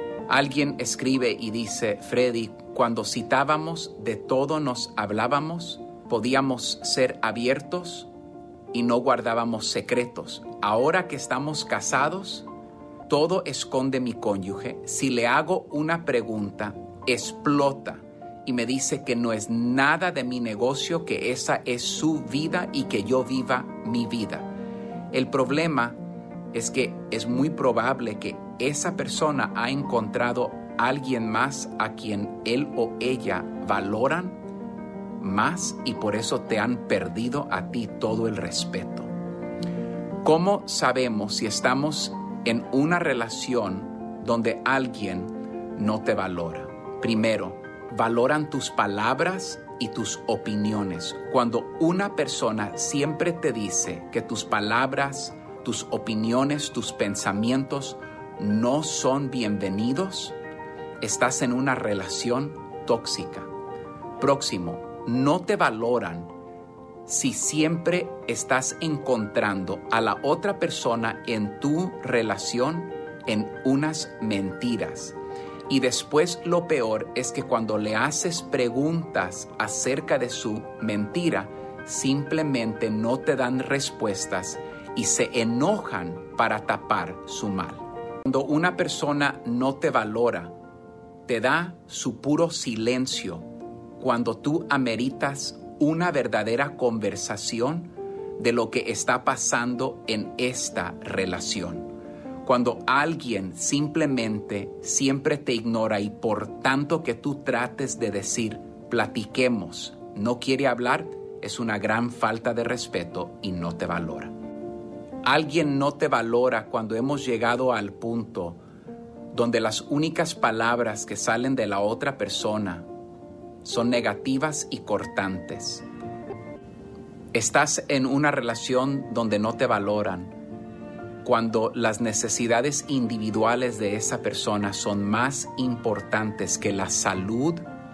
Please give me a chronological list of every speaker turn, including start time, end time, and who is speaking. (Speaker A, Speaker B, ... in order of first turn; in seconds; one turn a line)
Speaker A: 0.3-8.1
Speaker A: 8.7-12.5
Speaker A: 13.1-24.5
Speaker A: 25.1-26.0
Speaker A: 26.5-34.4
Speaker A: 35.2-39.1
Speaker A: 40.2-60.4
Speaker A: 61.0-63.5
Speaker A: 64.2-66.3
Speaker A: 67.1-75.2
Speaker A: 75.7-90.5
Speaker A: 91.3-93.5
Speaker A: 94.0-114.3
Speaker A: 115.2-118.6
Speaker A: 119.3-122.9
Speaker A: 123.6-125.8
Speaker A: 127.3-130.3
Speaker A: 131.2-137.7